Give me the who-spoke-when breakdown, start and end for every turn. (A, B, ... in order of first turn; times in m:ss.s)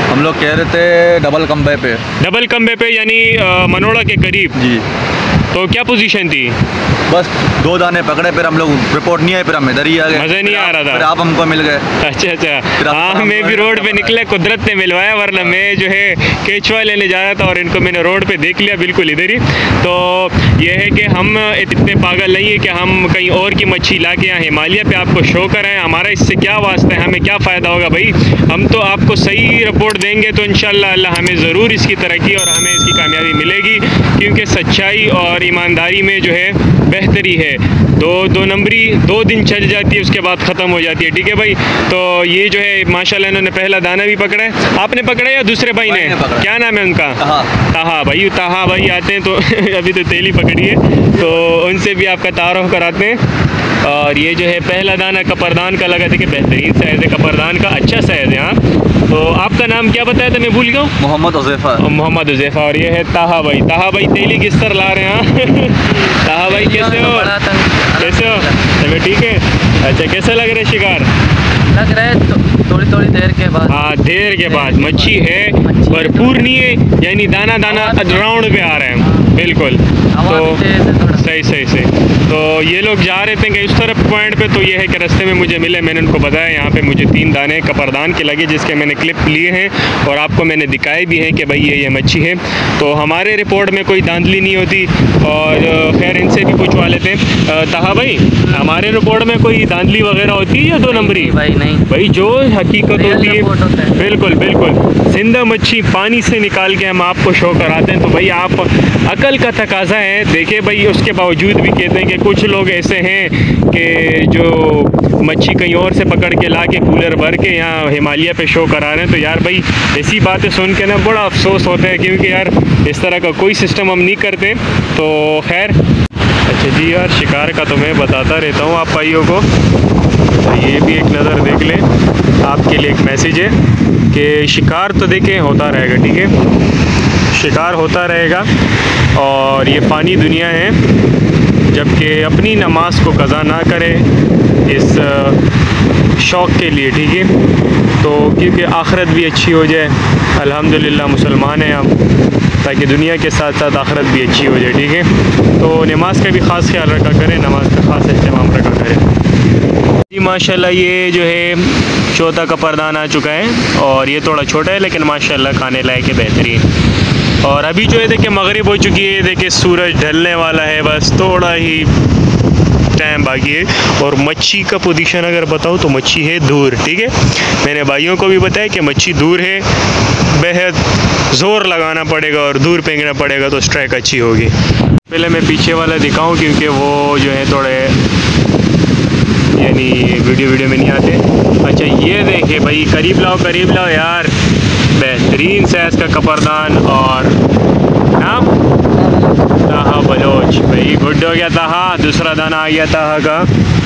0:00.1-0:02.0 A
0:02.2-0:04.6 B
0:04.6-0:04.8 A
0:05.5-0:06.6 B
0:07.1-0:11.9 A
0:10.1-0:11.1 B
0:12.0-0:53.2 B
0:12.8-0:14.2 A
0:45.8-0:46.5 A
0:47.2-0:47.5 A
0:53.8-1:01.0 B
1:01.0-1:01.8 A
1:01.8-1:07.3 B
1:06.4-1:08.6 C
1:08.0-1:11.1 B
1:11.7-1:16.6 C
1:13.7-2:05.8 B
1:17.7-1:18.3 C
1:20.2-1:21.2 C
1:40.9-1:41.9 C
1:43.0-1:44.0 C
2:06.5-2:09.5 B
2:10.3-2:11.9 B
2:12.4-2:13.6 B
2:14.1-2:16.3 B
2:17.3-2:18.5 B
2:19.2-2:20.8 B
2:21.7-2:24.1 B
2:24.7-2:25.4 B
2:26.2-2:27.3 B
2:28.0-2:32.0 B
2:32.6-2:39.1 B
2:40.1-2:46.7 B
2:47.4-2:51.9 B
2:52.9-2:59.7 B
3:00.3-3:04.6 B
3:05.1-3:08.0 B
3:09.5-3:14.4 B
3:14.9-3:17.4 B
3:18.2-3:18.6 B
3:19.6-3:23.5 B